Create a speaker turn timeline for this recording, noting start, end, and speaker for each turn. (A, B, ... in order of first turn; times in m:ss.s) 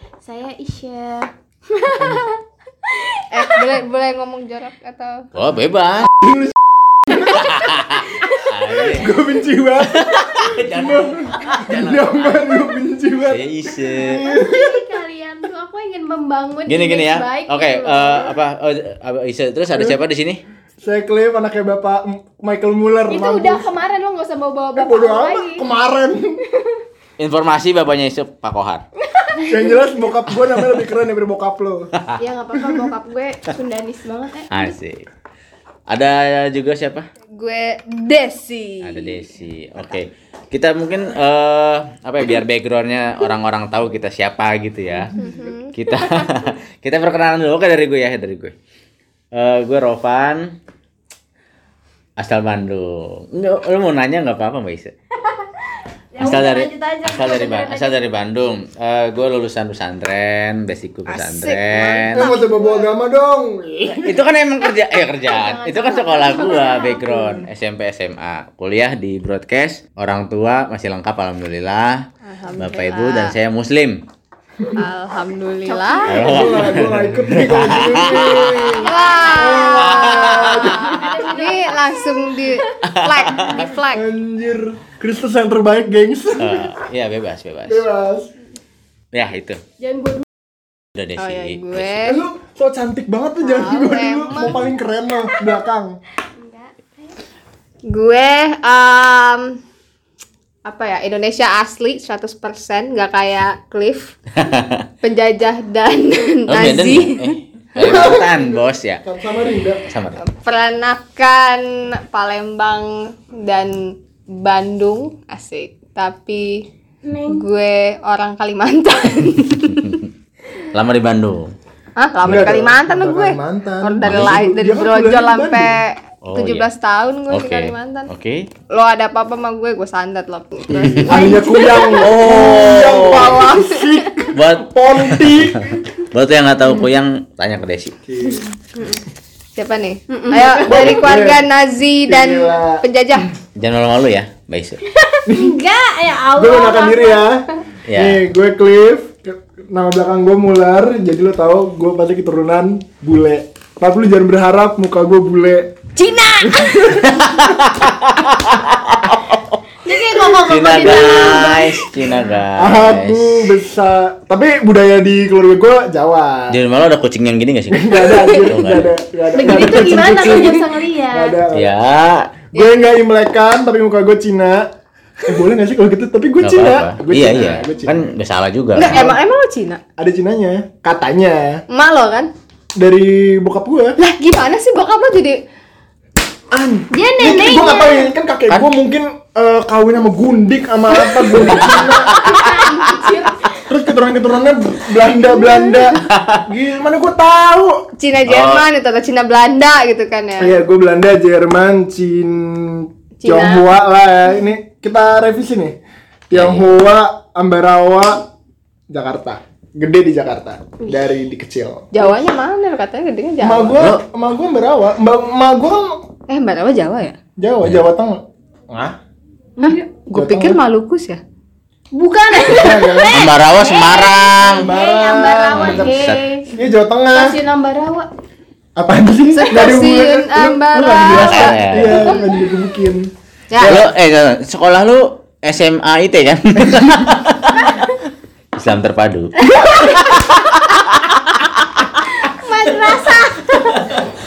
0:00.2-0:03.6 A
0:02.0-0:02.2 B
0:03.3-0:05.3 C
0:05.3-0:06.1 D
0:06.1-0:07.2 B
0:07.3-0:09.2 D
0:08.7-0:14.9 B
0:09.9-0:12.7 D
0:13.3-0:14.2 D
0:14.0-0:18.3 A
0:16.7-0:20.4 D
0:20.8-0:23.6 B
0:23.1-0:25.6 A
0:24.8-0:26.4 B
0:27.2-0:28.8 D
0:29.3-0:29.7 A
0:29.5-0:31.9 B
0:32.2-0:34.8 A
0:34.5-0:35.0 D
0:35.9-0:37.1 D
0:37.4-0:39.1 C
0:38.8-0:45.2 D
0:45.2-0:45.7 C
0:45.7-0:48.5 D
0:49.3-0:50.5 D
0:52.2-0:54.9 D
0:56.1-0:58.0 A
0:56.2-1:02.3 D
1:01.1-1:01.8 C
1:01.1-1:02.8 A
1:02.1-1:04.2 B
1:04.0-1:12.0 D
1:05.3-1:07.4 A
1:12.2-1:13.3 C
1:12.6-1:14.0 D
1:14.7-1:16.3 C
1:15.6-1:16.5 A
1:16.0-1:18.8 D
1:16.1-1:21.3 B
1:18.8-1:22.5 A
1:18.8-1:24.0 C
1:19.8-1:20.5 D
1:22.8-1:23.7 D
1:23.9-1:26.7 B
1:26.4-1:27.8 D
1:27.7-1:28.3 B
1:29.1-1:29.6 D
1:29.8-1:30.2 A
1:30.9-1:32.0 D
1:31.2-1:32.2 C
1:32.0-1:36.0 B
1:33.4-1:34.6 C
1:36.4-1:36.7 A
1:37.9-1:39.6 C
1:40.6-1:44.1 C
1:44.4-1:44.8 D
1:45.0-1:48.1 C
1:46.5-1:49.0 D
1:47.8-1:48.3 B
1:49.0-1:49.8 B
1:49.8-1:50.2 D
1:50.2-1:56.6 C
1:57.0-1:57.4 A
1:57.2-2:00.0 C
2:00.7-2:01.5 D
2:02.0-2:08.1 C
2:02.2-2:05.8 B
2:04.0-2:04.4 D
2:06.2-2:06.7 D
2:07.3-2:08.5 D
2:08.7-2:14.0 C
2:10.7-2:15.8 B
2:11.1-2:12.2 A
2:12.0-2:13.4 D
2:14.3-2:17.9 D
2:18.1-2:18.4 B
2:19.6-2:23.3 C
2:20.1-2:21.0 A
2:20.6-2:21.4 B
2:22.1-2:22.8 B
2:23.6-2:24.8 D
2:25.0-2:27.3 A
2:25.2-2:25.6 B
2:26.3-2:35.7 B
2:27.9-2:28.2 D
2:36.0-2:37.0 A
2:36.4-2:37.2 B
2:37.0-2:39.4 D
2:39.8-2:41.9 A
2:40.4-2:43.5 D
2:40.8-2:41.3 C
2:42.6-2:46.6 B
2:46.5-2:48.9 D
2:47.7-2:51.7 B
2:49.3-2:51.4 A
2:51.5-2:52.3 D
2:52.5-2:54.7 B
2:52.5-2:52.8 C
2:55.2-2:58.1 B
2:56.4-2:59.1 D
2:58.8-2:59.8 C
2:58.8-2:59.2 B
3:00.0-3:01.6 B
3:01.7-3:02.3 C
3:02.8-3:04.0 B
3:04.0-3:05.4 C
3:06.5-3:12.2 B
3:06.9-3:08.1 A
3:11.4-3:12.9 D
3:11.4-3:13.6 A
3:13.7-3:17.9 B
3:16.0-3:16.4 D
3:18.0-3:20.5 C
3:18.2-3:18.6 D
3:20.4-3:25.8 B
3:23.2-3:23.6 C
3:26.3-3:28.2 B
3:26.3-3:26.6 D
3:28.9-3:31.9 B
3:31.9-3:33.8 C
3:33.4-3:36.0 B
3:36.3-3:37.2 C
3:37.4-3:39.0 B
3:39.6-3:41.2 C
3:40.1-3:40.6 B
3:41.9-3:46.4 A
3:42.4-3:43.2 B
3:43.1-3:44.7 D
3:44.4-3:47.4 B
3:45.5-3:46.2 D
3:47.1-3:48.1 A
3:48.8-3:53.9 B
3:49.3-3:52.2 C
3:51.1-3:52.1 D
3:53.5-3:53.8 C
3:53.6-3:57.9 D
3:58.6-4:00.0 D
3:59.4-4:00.3 A
4:02.1-4:03.9 A